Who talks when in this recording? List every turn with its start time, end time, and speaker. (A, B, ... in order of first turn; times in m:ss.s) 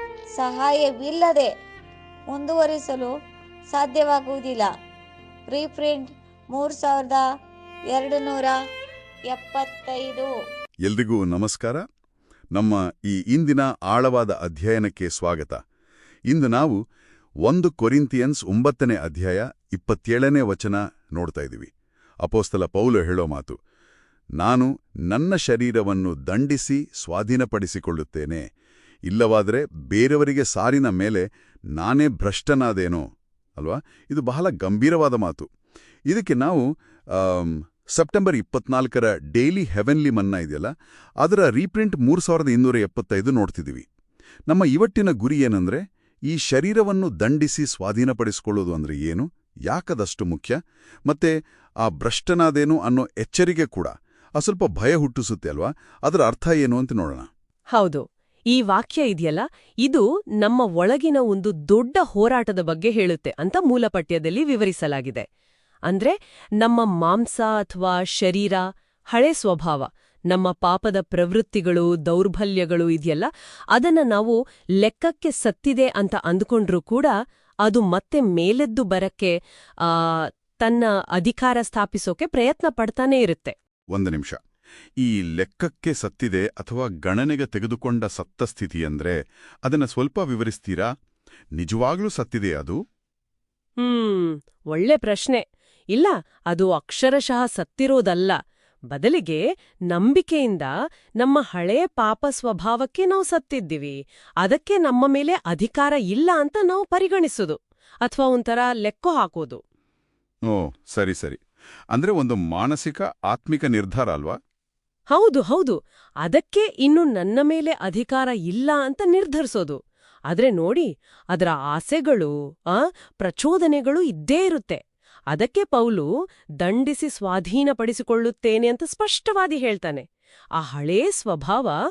0:00.4-0:01.5 A
0:02.3-0:03.1 A
0:03.7-0:04.7 A
0:05.5-0:07.2 A
0:07.9-0:08.6 A
0:09.3-0:10.3 A
0:10.8-0:11.8 B
0:12.5-0:15.6 B
0:16.3-0:16.8 B
0:17.4-0:21.7 B
0:22.2-0:23.6 B
0:24.4-0:28.4 B
0:29.1-0:33.0 B
0:33.6-0:35.5 B
0:36.1-0:43.8 B
0:44.5-0:50.6 B
0:51.1-0:57.3 B
0:57.7-1:05.2 C
1:05.9-1:08.6 C
1:09.1-1:17.1 C
1:17.6-1:23.5 C
1:23.9-1:24.4 B
1:25.0-1:30.9 B
1:31.5-1:32.8 B
1:33.8-1:38.3 C
1:38.9-1:49.6 C
1:50.5-1:51.4 B
1:51.9-1:54.4 B
1:55.1-1:59.8 C
2:00.3-2:04.8 C
2:05.3-2:06.1 C
2:06.6-2:10.0 C
2:10.6-2:11.7 C